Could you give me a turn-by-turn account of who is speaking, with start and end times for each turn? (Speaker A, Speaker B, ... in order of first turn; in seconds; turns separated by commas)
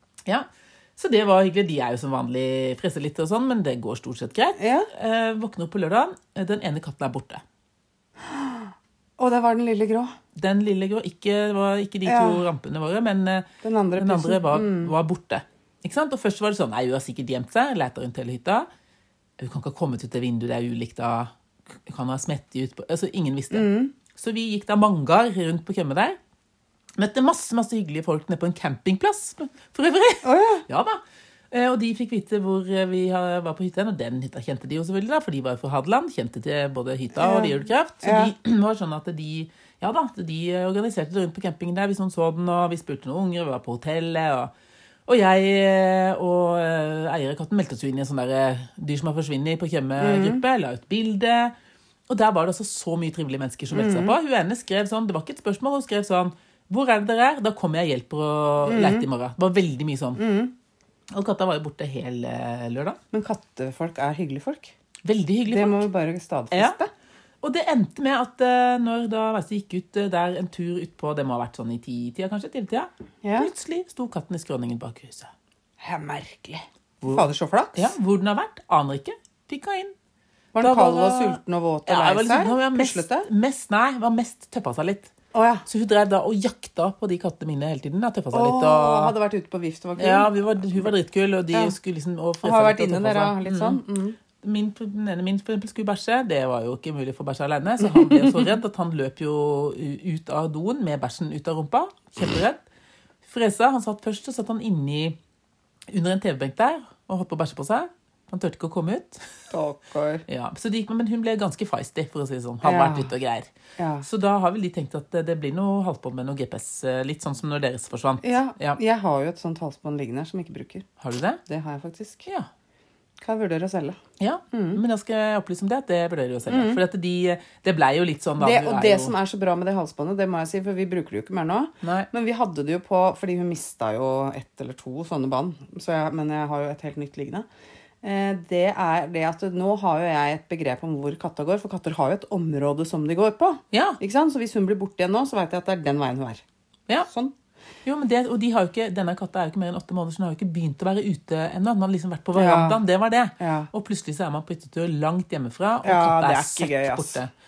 Speaker A: 0.3-7.4, Speaker B: 4.6-4.9, Speaker B: 8.2-10.1, Speaker A: 10.3-18.7, Speaker B: 12.1-12.4, Speaker B: 13.6-14.9, Speaker A: 19.4-21.3, Speaker A: 21.9-26.2, Speaker B: 23.5-23.9, Speaker A: 27.0-44.5, Speaker B: 30.2-30.6, Speaker B: 37.2-38.3, Speaker A: 45.1-51.5, Speaker B: 50.0-50.4, Speaker A: 52.1-60.2, Speaker B: 53.7-54.2, Speaker B: 58.7-59.1, Speaker B: 60.2-60.5, Speaker A: 61.1-63.0, Speaker B: 63.1-64.7, Speaker A: 65.0-65.8, Speaker B: 65.5-66.9, Speaker A: 66.5-66.8, Speaker A: 67.4-75.3, Speaker B: 73.2-73.5, Speaker B: 75.8-77.9, Speaker A: 77.0-80.0, Speaker B: 80.5-83.3, Speaker A: 80.6-85.1, Speaker B: 85.3-85.7, Speaker A: 85.7-89.1, Speaker B: 88.3-90.9, Speaker A: 90.0-93.8, Speaker B: 92.4-94.2, Speaker A: 94.4-102.6, Speaker B: 97.8-98.5, Speaker A: 103.2-105.2, Speaker A: 105.9-109.3, Speaker B: 109.5-110.2, Speaker A: 110.3-113.5, Speaker B: 112.6-113.1, Speaker B: 113.8-114.0, Speaker A: 114.0-118.8, Speaker B: 118.2-120.9, Speaker A: 121.0-121.4, Speaker B: 121.5-122.3, Speaker B: 123.2-124.0, Speaker A: 124.2-129.2, Speaker B: 124.5-124.8, Speaker B: 126.5-126.8, Speaker B: 128.4-137.5, Speaker A: 131.8-132.1, Speaker B: 138.0-146.4, Speaker A: 143.7-144.0, Speaker B: 147.1-147.3, Speaker A: 147.8-157.3, Speaker B: 152.3-152.8, Speaker B: 153.4-153.7, Speaker B: 155.8-157.2